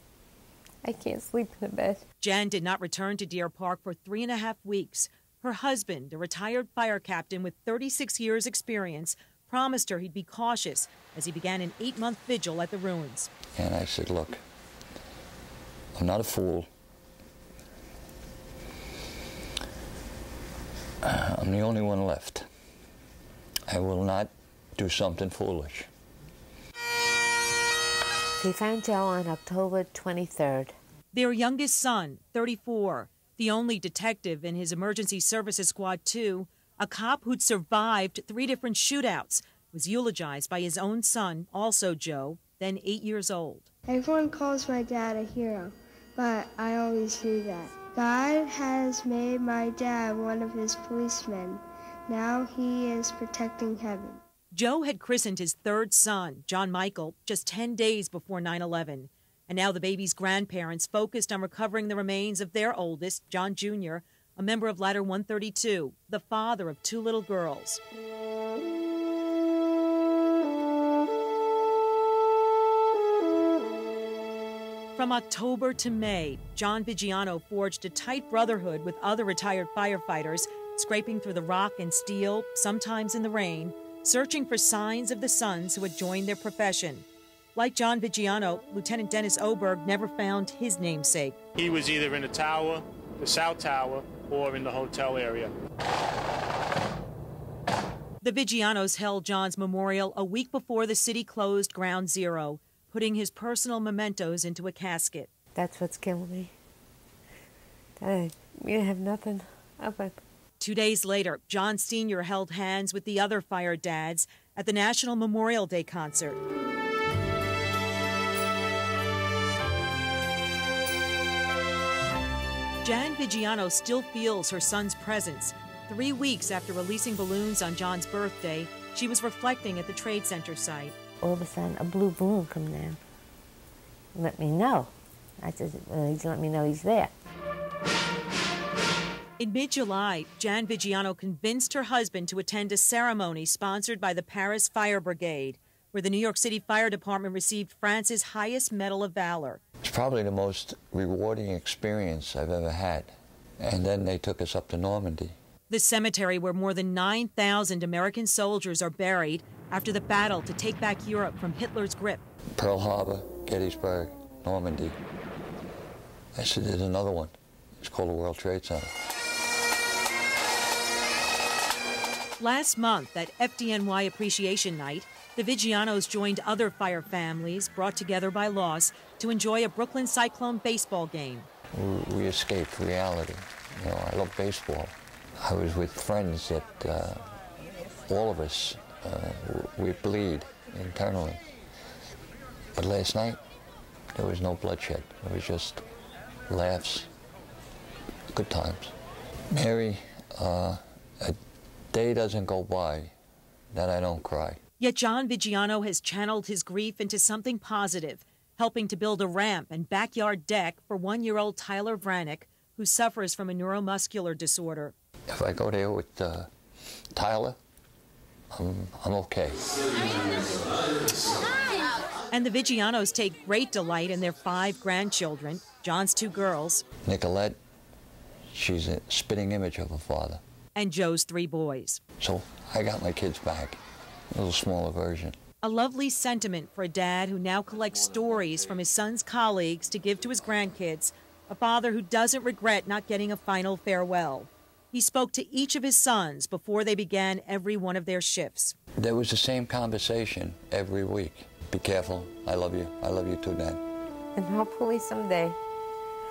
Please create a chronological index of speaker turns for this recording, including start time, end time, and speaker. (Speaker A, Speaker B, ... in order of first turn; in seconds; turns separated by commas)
Speaker A: 0.8-2.0, Speaker B: 2.2-13.3, Speaker C: 13.6-14.4, Speaker C: 15.9-16.7, Speaker C: 21.0-22.4, Speaker C: 23.7-25.9, Speaker A: 28.4-30.7, Speaker B: 31.1-43.7, Speaker D: 43.9-54.2, Speaker B: 54.5-67.8, Speaker B: 74.9-91.4, Speaker E: 91.5-95.5, Speaker B: 98.2-105.3, Speaker A: 105.5-106.5, Speaker A: 108.0-110.2, Speaker B: 110.6-116.4, Speaker B: 122.8-130.9, Speaker A: 131.2-133.0, Speaker A: 134.1-137.1, Speaker B: 139.4-149.6, Speaker C: 149.8-155.3, Speaker B: 155.7-162.2, Speaker C: 162.6-165.0, Speaker C: 166.3-168.9, Speaker B: 172.4-181.5, Speaker C: 181.7-187.2, Speaker C: 188.1-191.4, Speaker C: 192.8-193.4, Speaker C: 194.1-195.8, Speaker C: 196.5-197.1, Speaker C: 198.3-198.9, Speaker C: 199.5-201.4, Speaker C: 201.9-203.1, Speaker C: 203.7-204.6, Speaker B: 204.8-214.9, Speaker C: 215.3-216.5, Speaker C: 217.1-217.6, Speaker C: 218.5-219.6, Speaker B: 222.3-226.8, Speaker C: 227.0-227.6, Speaker C: 228.5-230.4, Speaker B: 230.8-232.0, Speaker C: 232.2-233.8, Speaker C: 234.3-235.4, Speaker B: 235.6-248.8, Speaker C: 249.0-253.8, Speaker A: 254.4-255.6